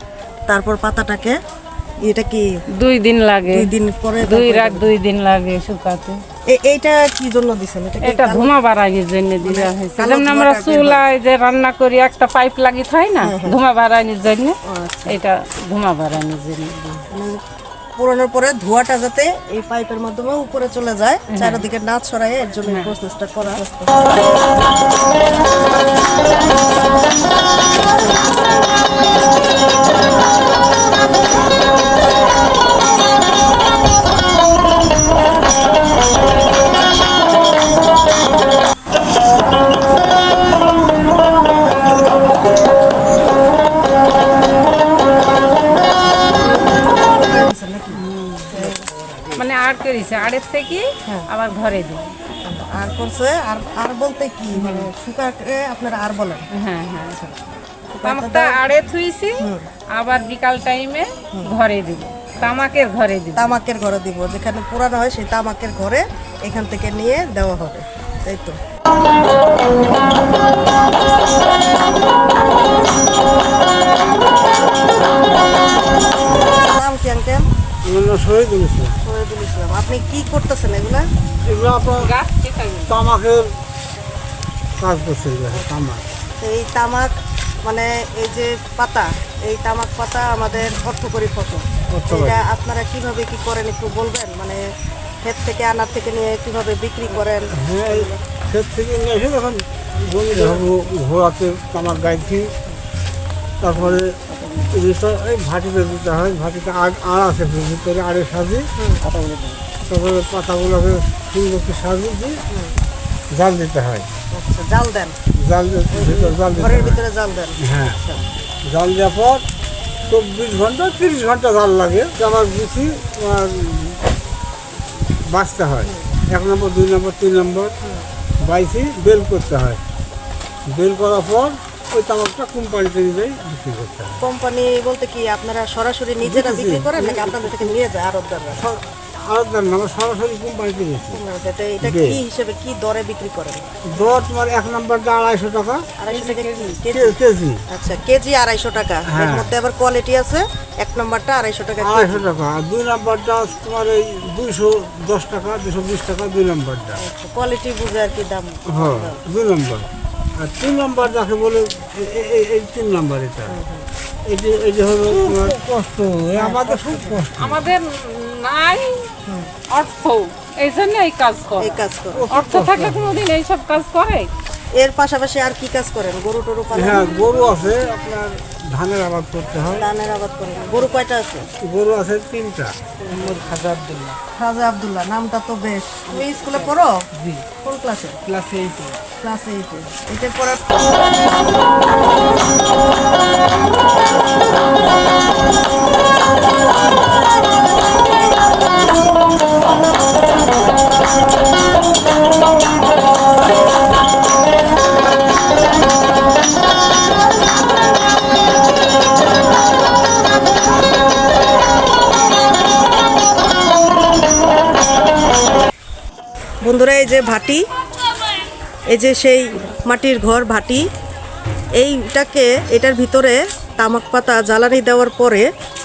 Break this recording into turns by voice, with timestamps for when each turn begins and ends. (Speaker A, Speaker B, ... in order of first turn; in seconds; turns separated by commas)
Speaker A: 0.5-1.4, Speaker A: 2.0-2.5, Speaker B: 2.8-3.7, Speaker A: 3.5-4.9, Speaker B: 4.2-6.2, Speaker A: 6.5-8.5, Speaker B: 8.0-17.1, Speaker A: 9.4-11.0, Speaker A: 13.2-13.6, Speaker A: 14.6-15.2, Speaker A: 17.1-17.4, Speaker A: 18.0-23.9, Speaker B: 21.3-21.6, Speaker B: 22.6-22.9, Speaker A: 46.4-48.9, Speaker B: 47.9-48.6, Speaker B: 49.3-52.1, Speaker A: 52.5-56.4, Speaker B: 54.5-54.9, Speaker B: 56.5-57.3, Speaker A: 57.9-58.6, Speaker B: 58.0-63.5, Speaker A: 59.4-59.6, Speaker A: 63.3-68.6, Speaker C: 76.2-76.6, Speaker A: 76.5-77.5, Speaker C: 77.8-79.0, Speaker A: 79.0-81.0, Speaker C: 81.4-82.1, Speaker B: 82.0-83.0, Speaker C: 82.9-83.5, Speaker C: 84.8-86.0, Speaker A: 86.4-94.6, Speaker C: 91.9-92.4, Speaker A: 95.2-98.2, Speaker C: 97.5-102.5, Speaker A: 100.3-100.6, Speaker C: 103.6-108.7, Speaker A: 108.8-109.1, Speaker C: 109.2-112.4, Speaker C: 113.3-114.1, Speaker A: 114.3-115.2, Speaker C: 115.3-117.0, Speaker A: 115.9-118.2, Speaker C: 117.6-118.0, Speaker C: 118.7-119.4, Speaker C: 120.1-124.0, Speaker C: 125.0-127.7, Speaker A: 127.8-128.1, Speaker C: 128.4-129.8, Speaker C: 130.7-134.2, Speaker A: 134.2-138.6, Speaker C: 136.2-137.8, Speaker C: 138.6-141.2, Speaker A: 141.1-143.8, Speaker C: 141.8-142.2, Speaker C: 143.9-145.8, Speaker A: 146.0-147.2, Speaker B: 146.1-146.8, Speaker C: 146.9-147.6, Speaker A: 147.7-152.3, Speaker C: 149.1-149.5, Speaker C: 151.8-157.0, Speaker A: 157.0-159.2, Speaker C: 158.7-163.6, Speaker A: 163.5-163.9, Speaker C: 164.2-167.7, Speaker A: 165.1-165.5, Speaker A: 166.3-167.2, Speaker B: 167.4-169.1, Speaker A: 169.2-169.5, Speaker B: 169.7-174.3, Speaker A: 171.6-172.3, Speaker C: 172.1-173.2, Speaker A: 174.8-177.3, Speaker C: 176.7-179.8, Speaker A: 179.8-181.4, Speaker C: 181.6-182.8, Speaker A: 183.0-183.5, Speaker B: 183.1-184.2, Speaker A: 184.4-187.0, Speaker B: 186.1-187.4, Speaker A: 187.6-188.2, Speaker B: 188.2-189.0, Speaker A: 189.2-190.6, Speaker A: 216.6-217.6, Speaker A: 218.9-220.8, Speaker A: 221.8-225.5